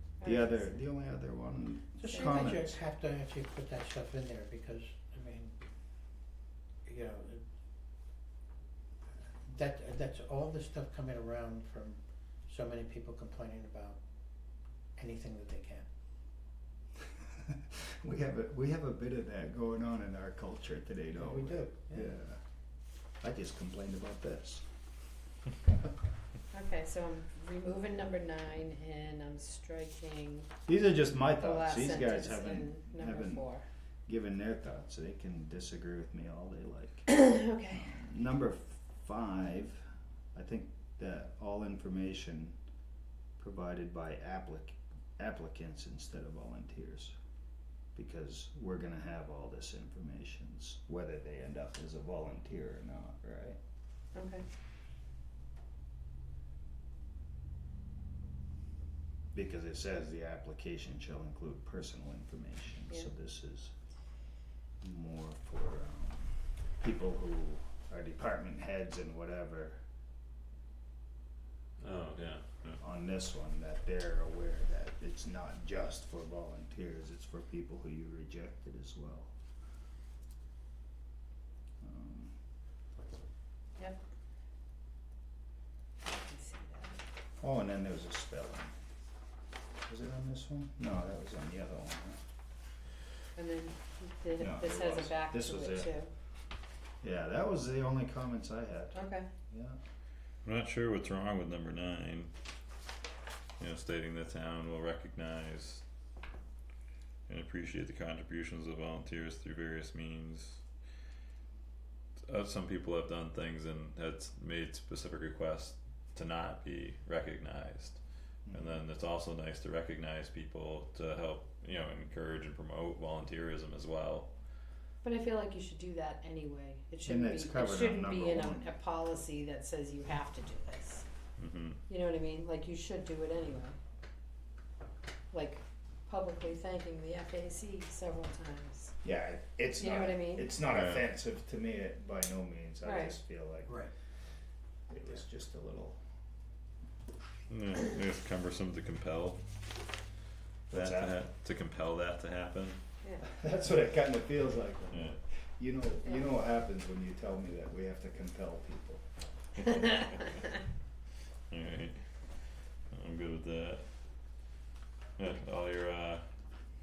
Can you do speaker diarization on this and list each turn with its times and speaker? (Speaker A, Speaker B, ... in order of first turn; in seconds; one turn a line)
Speaker A: 0.2-0.8
Speaker B: 0.2-2.8
Speaker C: 2.0-5.6
Speaker A: 2.1-2.5
Speaker C: 6.9-7.4
Speaker C: 9.5-14.0
Speaker C: 15.0-15.8
Speaker B: 18.0-22.4
Speaker C: 21.2-22.1
Speaker B: 23.2-24.7
Speaker A: 26.5-30.5
Speaker B: 30.7-33.5
Speaker A: 31.4-33.6
Speaker B: 34.1-39.8
Speaker A: 37.1-38.0
Speaker B: 40.3-42.6
Speaker B: 43.4-47.1
Speaker B: 48.0-53.6
Speaker A: 54.1-54.5
Speaker B: 59.3-63.7
Speaker B: 64.8-69.8
Speaker D: 71.8-72.8
Speaker B: 72.8-79.3
Speaker B: 81.8-82.3
Speaker A: 86.0-87.0
Speaker B: 87.4-88.7
Speaker B: 89.9-92.2
Speaker A: 93.4-96.1
Speaker B: 94.4-95.9
Speaker B: 97.0-99.8
Speaker A: 98.9-99.3
Speaker D: 100.5-102.3
Speaker D: 103.6-105.8
Speaker D: 107.3-110.6
Speaker D: 112.3-118.0
Speaker B: 118.5-118.8
Speaker D: 118.5-124.3
Speaker A: 125.0-131.0
Speaker B: 127.1-128.7
Speaker D: 131.4-131.8
Speaker A: 131.9-133.8
Speaker A: 135.3-138.9
Speaker B: 139.0-143.8
Speaker A: 139.8-140.6
Speaker D: 140.7-141.1
Speaker A: 142.8-143.2
Speaker B: 144.9-146.0
Speaker D: 147.5-149.4
Speaker B: 150.7-151.3
Speaker D: 150.7-152.8
Speaker B: 153.3-159.0
Speaker D: 154.9-155.2
Speaker A: 156.0-156.3
Speaker D: 159.6-160.4
Speaker D: 161.5-162.0
Speaker D: 162.9-163.8
Speaker D: 165.2-166.2